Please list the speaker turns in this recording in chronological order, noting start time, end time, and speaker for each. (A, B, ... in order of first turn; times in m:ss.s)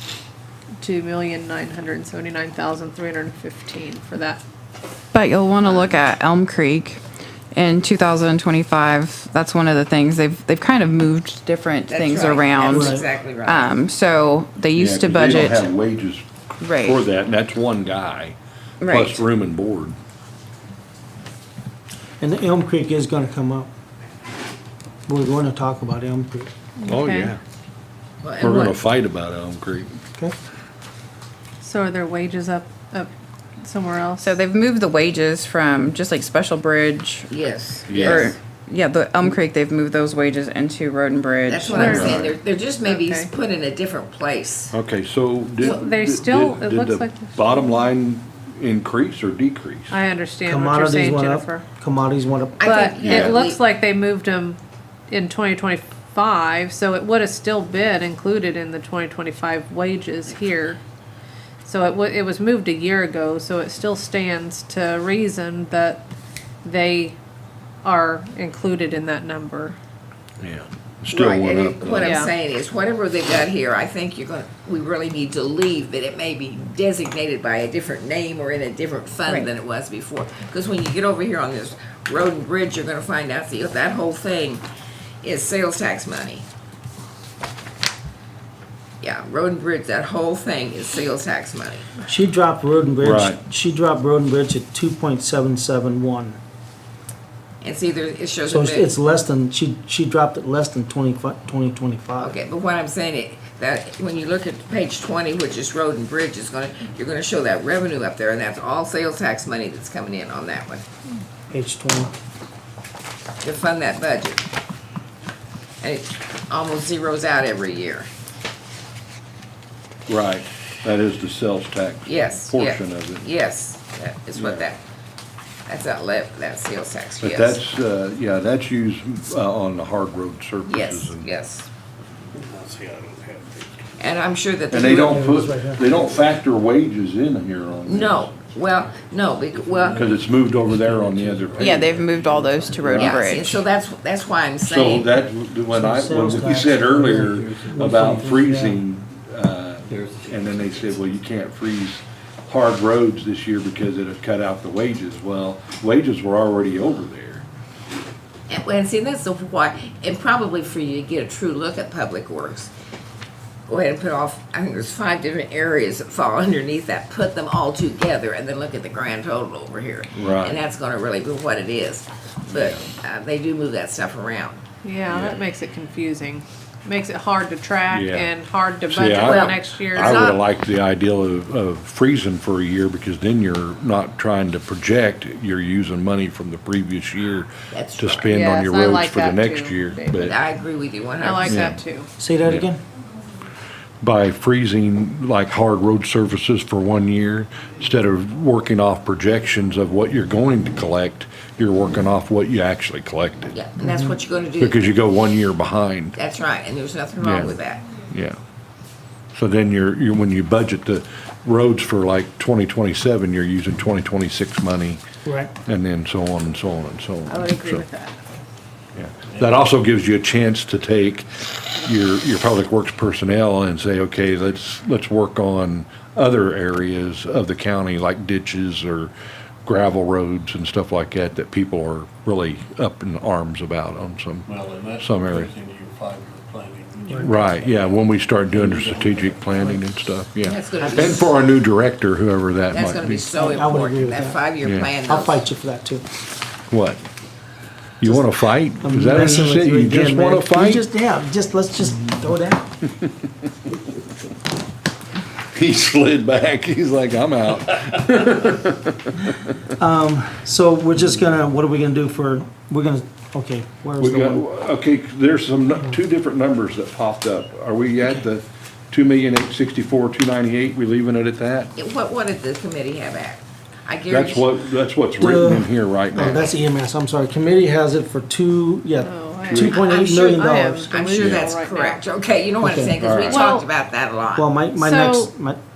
0:00.8-0:04.4 A
0:05.1-0:07.0 B
0:05.6-0:06.0 A
0:07.5-0:15.7 B
0:11.9-0:13.8 C
0:12.7-0:13.0 D
0:14.8-0:18.4 E
0:16.6-0:17.0 B
0:18.8-0:19.2 B
0:18.9-0:20.0 E
0:22.2-0:23.7 D
0:25.1-0:26.5 D
0:26.8-0:27.3 A
0:26.8-0:27.4 E
0:28.2-0:28.8 C
0:28.4-0:29.9 E
0:31.6-0:33.1 A
0:33.6-0:34.4 A
0:34.2-0:37.3 B
0:37.3-0:38.4 C
0:37.9-0:38.3 E
0:38.0-0:42.1 B
0:41.5-0:44.8 C
0:41.7-0:42.3 A
0:41.7-0:42.4 E
0:42.8-0:43.3 A
0:44.7-0:50.0 E
0:45.6-0:47.3 A
0:49.9-0:51.6 A
0:50.4-0:52.6 D
0:52.6-0:53.6 C
0:52.6-0:54.6 A
0:53.0-0:53.4 E
0:55.1-1:00.8 A
1:01.6-1:06.0 A
1:06.6-1:07.2 A
1:07.8-1:09.8 A
1:10.4-1:12.2 E
1:11.1-1:24.6 C
1:12.0-1:12.3 A
1:25.2-1:26.4 C
1:29.0-1:31.9 C
1:32.1-1:36.4 D
1:33.0-1:33.4 E
1:37.6-1:38.9 C
1:38.5-1:42.4 D
1:42.2-1:50.8 C
1:51.5-1:52.1 D
1:53.4-1:54.4 C
1:55.8-1:58.1 C
2:00.1-2:03.3 E
2:02.1-2:04.8 C
2:04.4-2:04.7 E
2:05.7-2:07.6 C
2:07.2-2:11.3 E
2:10.6-2:11.7 C
2:12.3-2:13.8 F
2:14.0-2:15.2 C
2:14.7-2:18.3 E
2:15.0-2:15.9 D
2:17.9-2:20.1 C
2:19.6-2:23.3 F
2:20.0-2:21.9 E
2:21.6-2:23.6 B
2:22.9-2:25.1 C
2:24.7-2:37.4 E
2:25.7-2:28.8 D
2:27.2-2:27.8 F
2:29.9-2:31.0 F
2:38.5-2:42.7 C
2:43.7-2:54.6 C
2:50.1-2:50.6 E
2:52.5-2:52.8 E
2:54.8-3:00.4 A
2:55.1-2:55.4 E
2:57.9-2:58.3 E
2:58.9-3:10.4 E
2:59.2-3:00.3 C
3:07.7-3:08.3 C
3:08.3-3:10.4 A
3:10.2-3:11.7 C
3:11.2-3:12.1 A
3:11.4-3:11.8 E
3:12.2-3:12.8 D
3:14.0-3:23.5 E
3:23.5-3:24.9 C
3:23.8-3:24.1 D
3:24.6-3:26.2 E
3:26.2-3:27.9 C
3:27.2-3:27.6 E
3:28.1-3:28.4 E
3:29.3-3:35.0 E
3:35.2-3:35.5 D
3:35.7-3:37.9 E
3:37.3-3:38.2 A
3:39.0-3:49.1 E
3:49.6-3:55.5 E
3:54.5-3:59.9 F
3:57.2-4:03.3 E
4:00.4-4:01.4 C
4:00.8-4:01.2 D
4:02.7-4:05.4 C
4:03.3-4:04.4 D
4:04.6-4:04.9 E
4:05.0-4:06.0 D
4:06.7-4:07.0 E
4:08.0-4:10.9 E
4:08.8-4:12.7 D
4:15.5-4:19.4 E
4:19.8-4:24.5 D
4:24.0-4:31.7 E
4:31.8-4:34.5 C
4:34.1-4:36.5 E
4:35.2-4:40.9 D
4:39.0-4:42.0 A
4:39.5-4:39.8 E
4:39.7-4:44.5 C
4:41.2-4:41.4 E
4:42.6-4:43.0 D
4:43.0-4:43.5 E
4:43.3-4:43.7 A
4:44.4-4:45.6 D
4:44.8-4:45.3 A